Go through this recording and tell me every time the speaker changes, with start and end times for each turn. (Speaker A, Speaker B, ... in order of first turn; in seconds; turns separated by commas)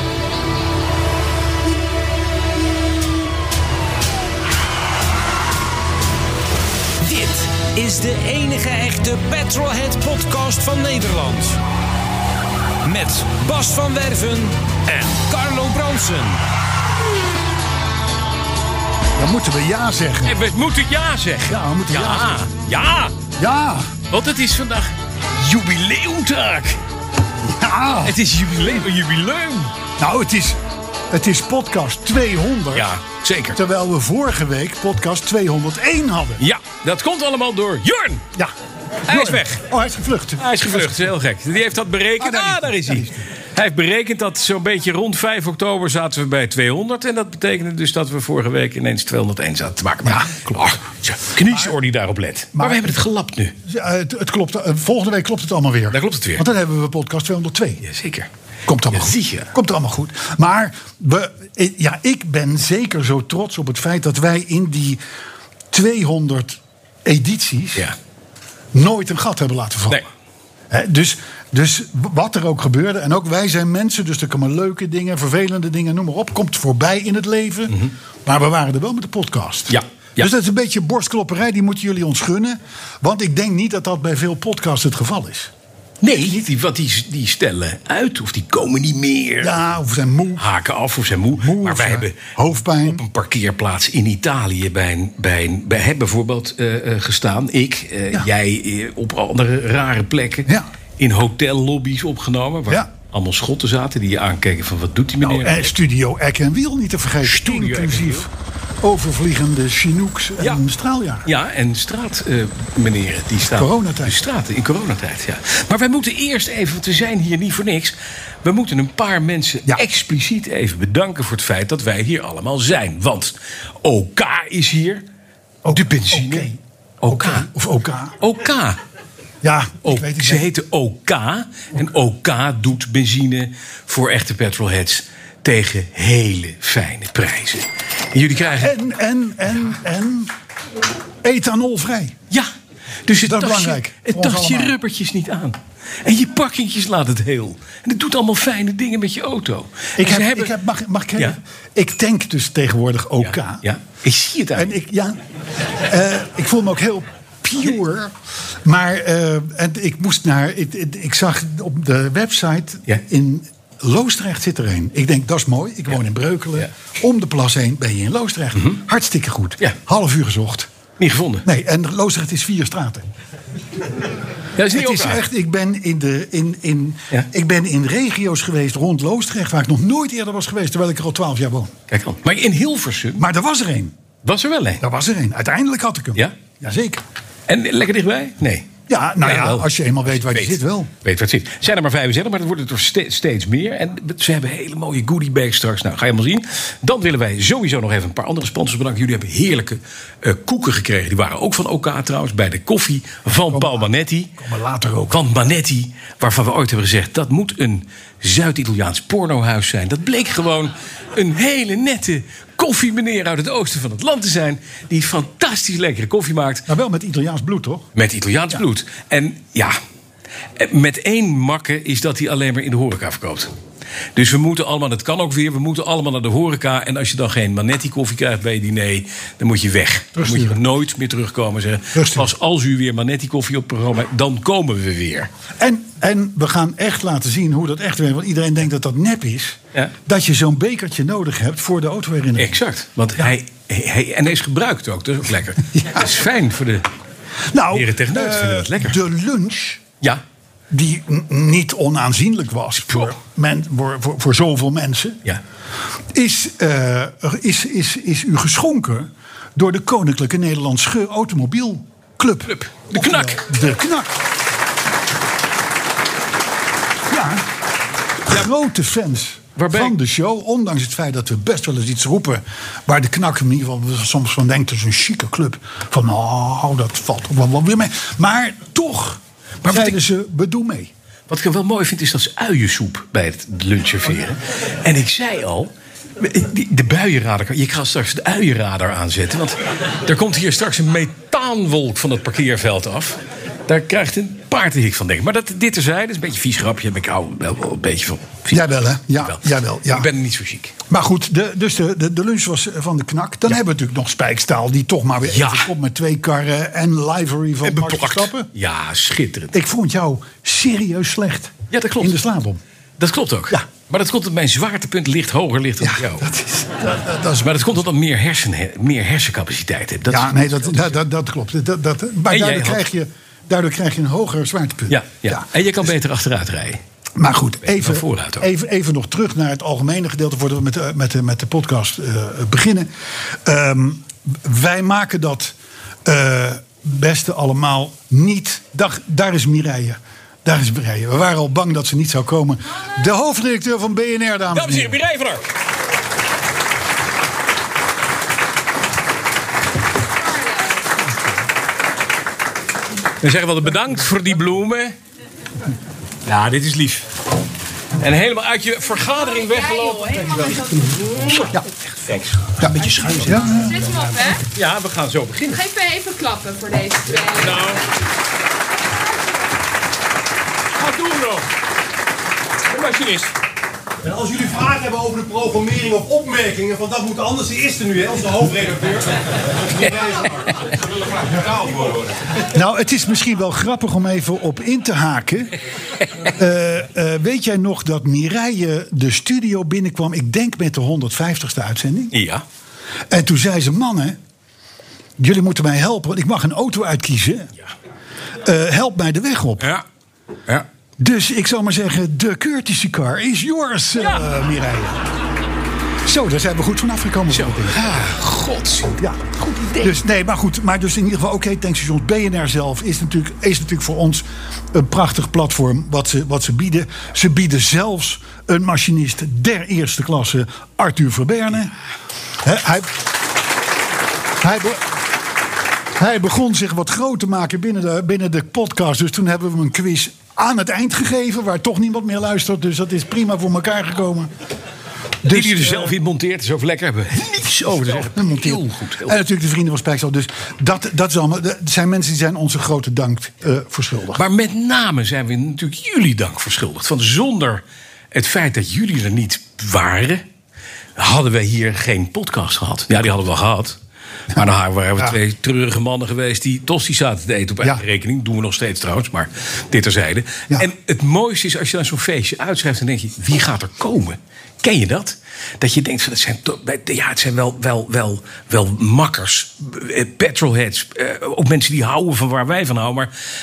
Speaker A: 7.0-11.6, Speaker A: 12.8-16.4, Speaker B: 19.1-20.4, Speaker C: 20.2-23.1, Speaker B: 21.5-22.4, Speaker B: 23.4-23.9, Speaker C: 24.1-26.8, Speaker B: 27.4-28.2, Speaker C: 28.0-29.7, Speaker B: 30.0-30.6, Speaker B: 31.1-32.9, Speaker C: 32.7-33.6, Speaker B: 33.5-36.4, Speaker C: 36.4-38.2, Speaker C: 39.0-39.6, Speaker B: 39.0-41.1, Speaker C: 40.4-53.5, Speaker B: 42.2-43.3, Speaker B: 50.0-50.4, Speaker B: 51.5-51.7, Speaker B: 52.5-53.0, Speaker B: 53.6-57.8, Speaker C: 55.9-56.5, Speaker C: 57.8-58.3, Speaker B: 58.6-65.0, Speaker C: 58.9-59.5, Speaker B: 65.7-67.9, Speaker B: 68.7-70.0, Speaker B: 70.7-85.5, Speaker C: 79.7-80.3, Speaker C: 86.0-89.6, Speaker B: 86.1-86.4, Speaker B: 89.4-90.5, Speaker C: 90.4-92.3, Speaker B: 91.4-93.0, Speaker C: 92.8-105.7, Speaker B: 105.2-108.3, Speaker C: 107.2-108.3, Speaker B: 108.8-111.3, Speaker C: 111.2-125.0, Speaker B: 113.4-114.2, Speaker B: 125.6-128.2, Speaker C: 125.7-126.5, Speaker C: 127.0-127.5, Speaker C: 128.2-128.8, Speaker B: 129.4-130.5, Speaker C: 129.8-138.7, Speaker B: 138.5-140.3, Speaker B: 141.2-142.1, Speaker C: 143.0-150.5, Speaker B: 143.2-144.8, Speaker B: 150.0-153.6, Speaker C: 153.2-154.7, Speaker B: 154.5-155.2, Speaker B: 155.7-170.7, Speaker C: 171.0-171.4, Speaker B: 171.4-173.1, Speaker C: 174.5-175.2, Speaker B: 174.6-181.7, Speaker C: 181.9-183.3, Speaker B: 183.2-183.9, Speaker C: 184.2-184.8, Speaker B: 184.8-187.0, Speaker C: 187.5-204.3, Speaker B: 188.9-190.9, Speaker B: 203.5-205.2, Speaker C: 205.1-216.7, Speaker B: 216.7-217.9, Speaker C: 217.9-219.8, Speaker C: 220.6-223.5, Speaker C: 224.1-235.3, Speaker B: 230.1-230.6, Speaker B: 231.9-232.3, Speaker B: 235.6-242.6, Speaker C: 242.3-246.9, Speaker B: 247.5-249.8, Speaker C: 247.7-249.0, Speaker B: 250.7-255.2, Speaker B: 256.1-264.1, Speaker C: 262.4-263.4, Speaker B: 267.1-267.5, Speaker B: 268.2-280.9, Speaker C: 269.6-269.9, Speaker C: 279.6-280.0, Speaker C: 281.3-298.6, Speaker B: 298.5-300.1, Speaker C: 299.2-300.7, Speaker B: 300.9-308.5, Speaker C: 305.3-305.7, Speaker C: 307.6-309.6, Speaker B: 309.5-312.6, Speaker C: 311.7-312.2, Speaker C: 313.0-316.3, Speaker B: 315.8-317.6, Speaker C: 317.2-321.0, Speaker B: 320.1-325.5, Speaker C: 322.3-322.8, Speaker C: 324.9-326.8, Speaker B: 327.2-345.0, Speaker C: 327.6-328.5, Speaker C: 344.5-345.4, Speaker D: 350.1-350.9, Speaker C: 353.2-354.9, Speaker C: 356.2-357.1, Speaker C: 358.0-363.6, Speaker D: 359.2-361.5, Speaker B: 362.6-364.1, Speaker D: 362.8-364.4, Speaker C: 364.5-365.6, Speaker D: 365.5-367.7, Speaker C: 367.3-367.8, Speaker C: 370.8-371.5, Speaker C: 372.7-373.3, Speaker E: 374.0-382.4, Speaker B: 382.4-385.5, Speaker B: 386.2-392.1, Speaker C: 392.1-392.4, Speaker B: 393.1-394.2, Speaker B: 395.2-397.5, Speaker B: 398.4-399.7, Speaker C: 399.6-399.8, Speaker B: 401.0-405.1, Speaker C: 404.0-404.2, Speaker B: 406.0-408.1, Speaker C: 407.3-410.0, Speaker B: 409.8-421.8, Speaker B: 422.4-423.1, Speaker B: 424.4-424.8, Speaker B: 425.9-434.3, Speaker B: 435.2-436.0, Speaker C: 435.3-439.1, Speaker B: 438.0-444.2, Speaker C: 444.1-447.6, Speaker C: 448.1-450.2, Speaker C: 450.9-473.1